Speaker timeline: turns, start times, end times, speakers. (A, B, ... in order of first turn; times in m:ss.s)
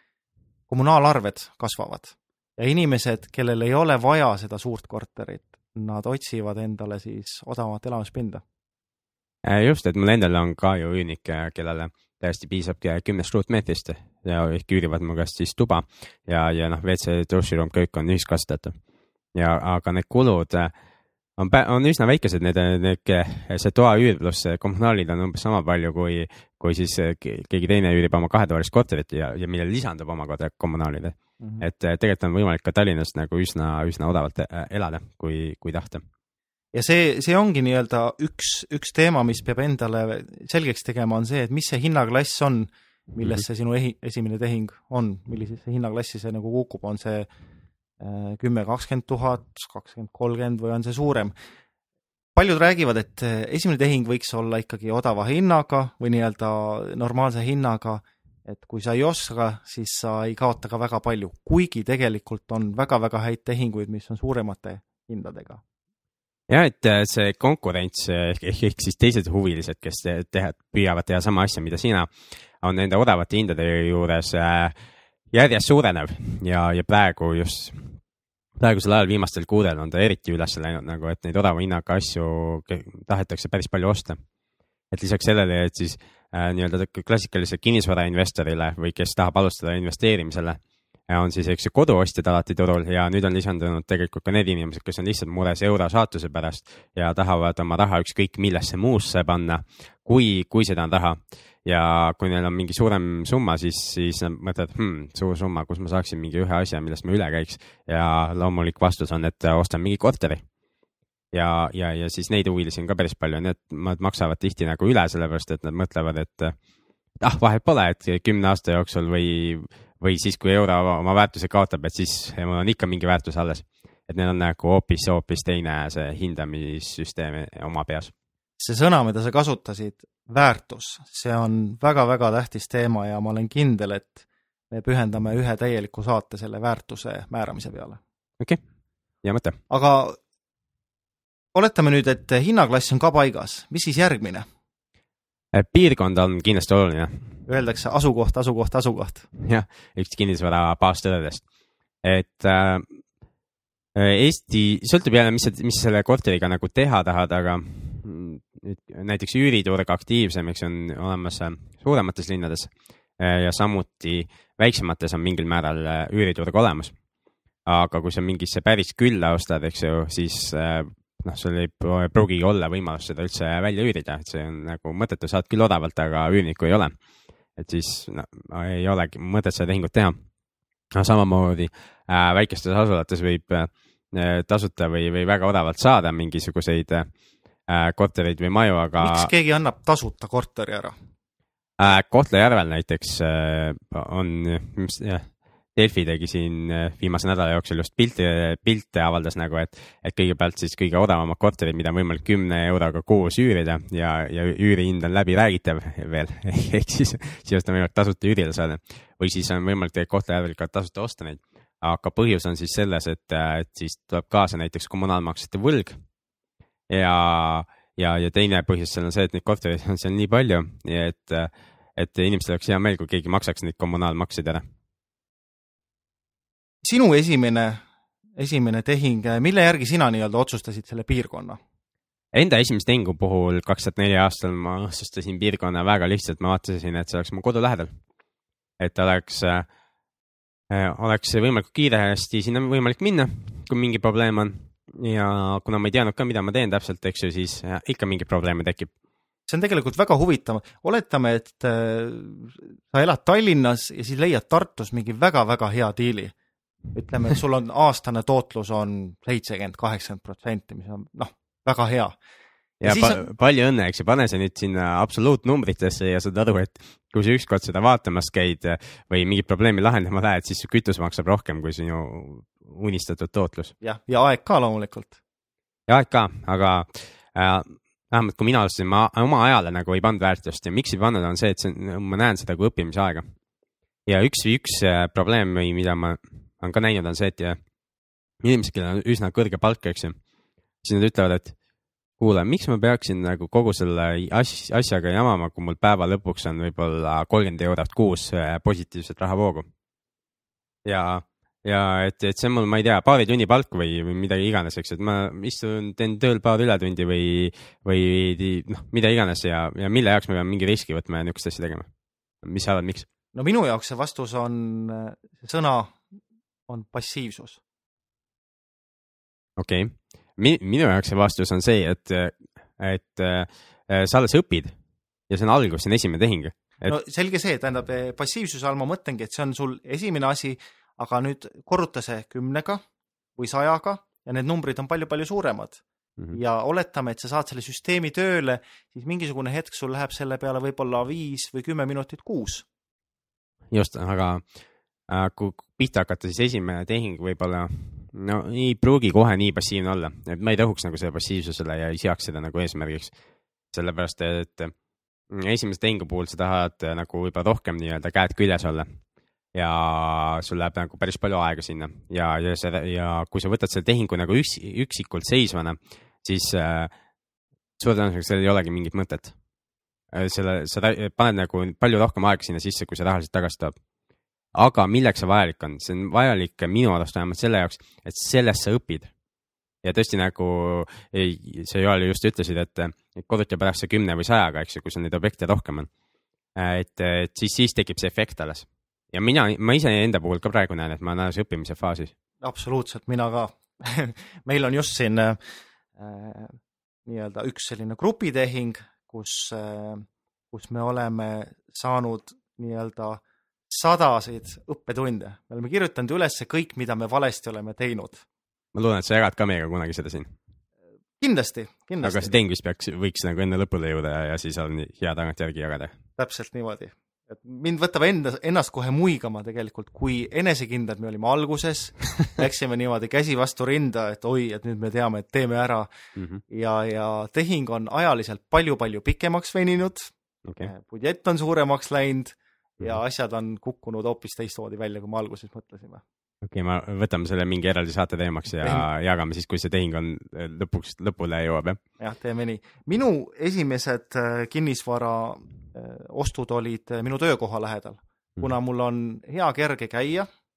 0:00.7-0:08.4 A
0:09.4-0:18.8 B
0:19.4-0:20.7 B
0:21.4-0:36.0 B
0:36.7-0:47.3 A
0:48.0-0:51.3 A
0:52.4-1:05.6 A
1:06.5-1:12.1 B
1:12.6-1:14.7 B
1:15.3-1:18.0 B
1:18.6-1:24.2 B
1:24.9-1:50.4 B
1:51.3-1:56.6 B
1:57.2-2:08.1 B
2:08.6-2:18.0 A
2:19.2-2:19.6 B
2:19.7-2:20.2 A
2:21.5-2:24.5 A
2:25.5-2:27.3 B
2:27.5-2:29.3 A
2:29.4-2:31.4 B
2:32.0-2:32.8 B
2:34.0-2:46.9 B
2:47.7-2:56.9 B
2:57.6-3:00.2 B
3:01.0-3:07.1 B
3:07.7-3:09.3 B
3:09.0-3:11.0 A
3:11.8-3:36.0 B
3:36.9-3:44.6 B
3:46.8-3:47.8 A
3:48.4-3:51.6 A
3:52.3-3:57.9 B
3:58.8-3:59.7 B
4:00.7-4:08.9 B
4:09.5-4:16.3 A
4:16.9-4:22.2 A
4:22.8-4:33.7 B
4:22.8-4:23.2 A
4:33.8-4:35.2 A
4:35.9-4:43.3 B
4:44.1-4:47.6 B
4:48.4-4:50.2 B
4:50.8-4:51.6 B
4:52.2-4:59.7 B
5:00.8-5:11.9 B
5:12.4-5:13.1 B
5:13.4-5:16.0 A
5:16.7-5:17.6 A
5:19.6-5:24.7 B
5:25.3-5:26.9 B
5:26.9-5:32.8 A
5:33.4-5:35.8 A
5:36.3-5:42.7 A
5:43.7-5:44.4 B
5:45.1-5:53.1 B
5:53.7-5:54.7 B
5:55.3-5:58.9 B
5:59.5-6:06.9 B
6:07.8-6:09.3 B
6:10.1-6:13.7 B
6:14.6-6:19.1 B
6:19.8-6:25.9 B
6:26.6-6:32.1 B
6:32.4-6:35.4 A
6:36.0-6:48.2 A
6:48.7-6:50.3 B
6:51.2-6:52.4 A
6:52.0-6:55.9 B
6:56.2-7:05.9 A
7:06.2-7:06.4 B
7:06.5-7:16.0 A
7:10.4-7:10.7 B
7:16.4-7:21.8 B
7:18.6-7:18.8 A
7:22.0-7:30.3 A